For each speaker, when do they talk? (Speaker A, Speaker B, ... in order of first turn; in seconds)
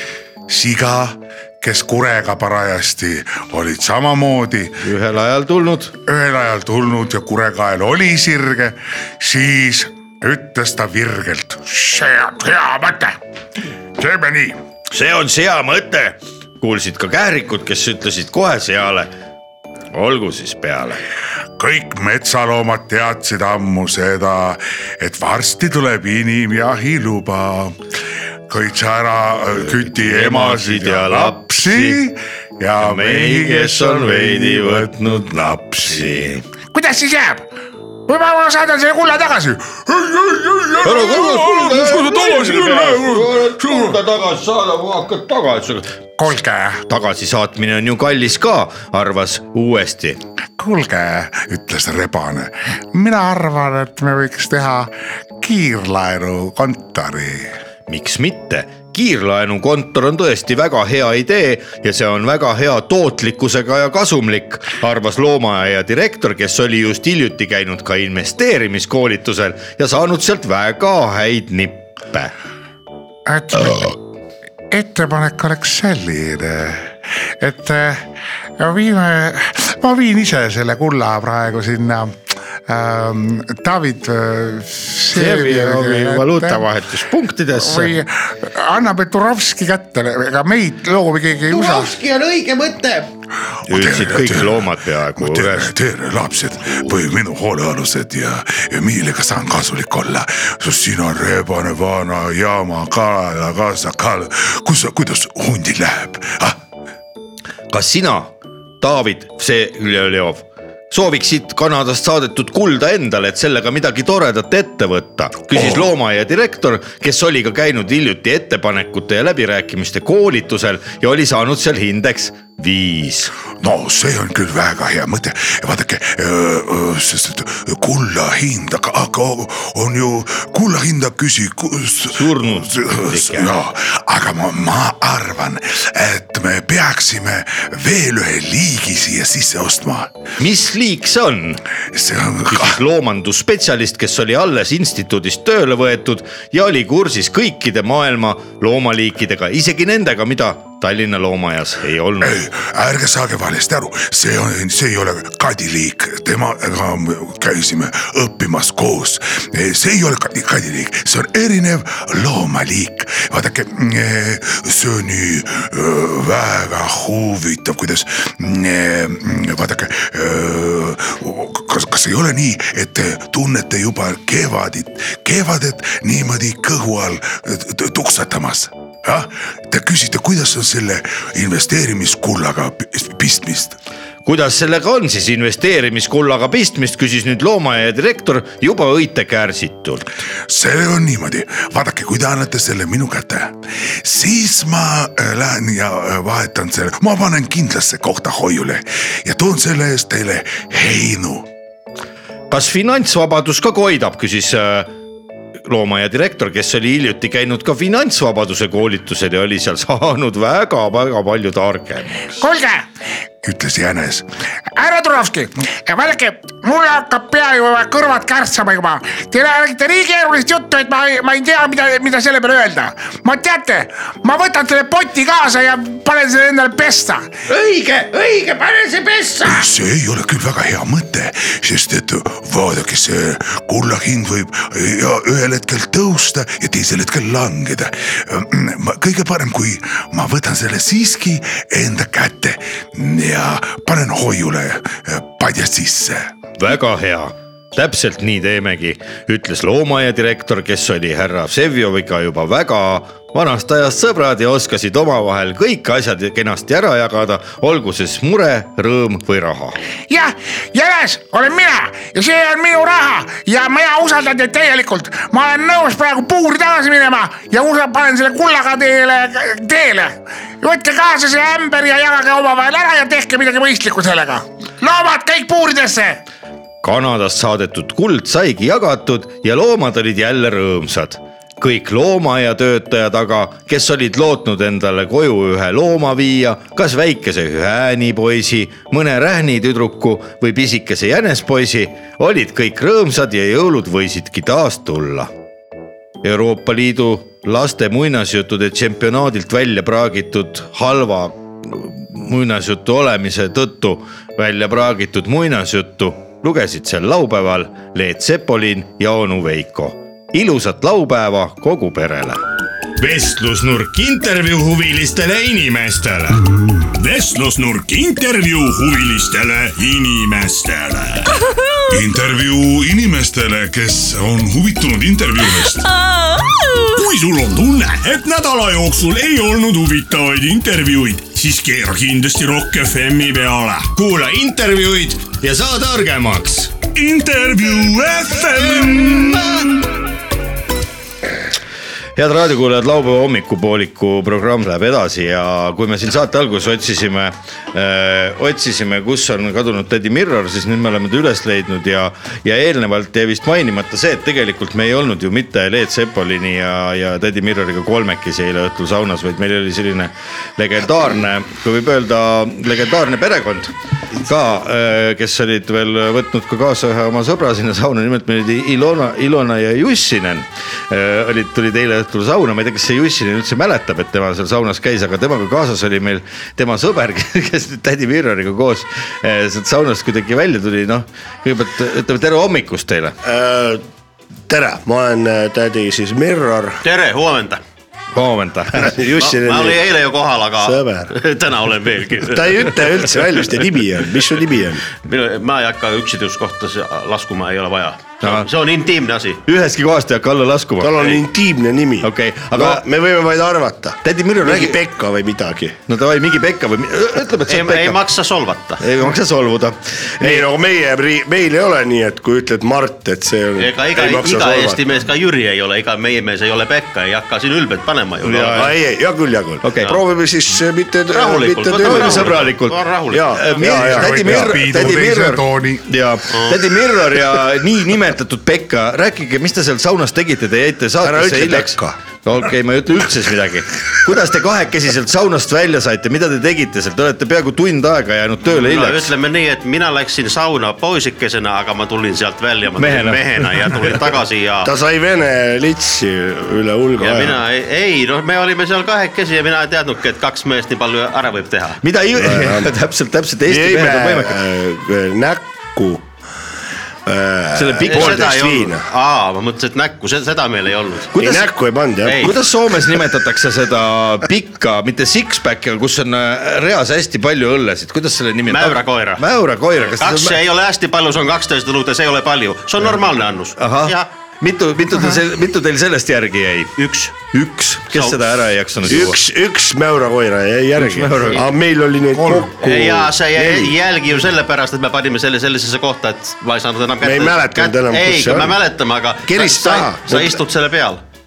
Speaker A: 0.5-4.8, 6.0-12.3, 14.0-14.6, 21.6-27.8, 28.5-36.4, 39.8-44.0, 51.3-52.5, 56.6-57.5, 93.7-106.6, 115.5-115.9, 123.6-140.1, 141.9-142.8, 152.2-183.8, 190.5-201.5, 213.4-214.3, 229.4-246.3, 321.9-325.9, 423.7-425.9, 482.1-482.5
Speaker B: 4.8-5.9, 14.9-19.1, 19.9-21.0, 29.5-32.0, 32.8-36.4, 40.8-45.9, 46.9-50.2, 57.9-72.3, 85.1-88.0, 91.5-93.1, 93.7-95.7, 107.7-123.3, 132.1-133.5, 140.4-141.6, 142.5-152.4, 184.2-190.1, 202.5-204.9, 205.7-212.4, 227.5-229.7, 246.6-259.8, 276.8-295.3, 296.2-312.4, 313.0-316.4, 334.2-336.7, 342.1-383.1, 388.1-388.9, 398.2-398.5, 399.4-401.2, 402.0-402.8, 404.0-404.8, 405.9-408.0, 408.8-410.4, 418.2-418.7, 419.6-420.0, 421.9-439.1, 442.8-443.9, 451.8-454.4, 457.5-458.3, 461.1-461.5, 462.1-470.4, 473.6-479.2, 480.8-481.5
Speaker C: 12.2-13.2, 36.7-37.4, 38.1-39.7, 46.2-46.8, 50.6-51.3, 52.9-54.9, 55.4-56.9, 73.3-74.0, 74.7-76.8, 77.4-82.2, 82.7-86.6, 87.5-91.9, 212.4-212.8, 214.8-227.3, 260.1-276.2
Speaker D: 316.9-321.5, 325.4-325.7, 326.6-334.9, 336.9-339.8
Speaker E: 383.2-383.8, 384.5-386.8, 388.8-389.9, 390.6-391.1, 392.2-394.9, 400.8-405.8, 410.2-414.8, 418.5-422.5, 423.1-424.7, 431.0-431.9, 444.6-447.4, 452.1-452.7, 453.4-456.1, 457.1-458.8, 461.1-462.3, 478.8-483.7, 487.0-488.6, 489.2-490.4
Speaker F: 386.8-387.6, 389.1-392.8, 395.0-399.4, 407.5-408.8, 413.6-418.7, 421.1-423.7, 438.4-444.7, 447.0-451.8, 457.9-461.1, 462.0-462.3, 468.5-469.2, 469.8-474.1, 476.8-477.1, 477.9-478.2, 482.6-491.0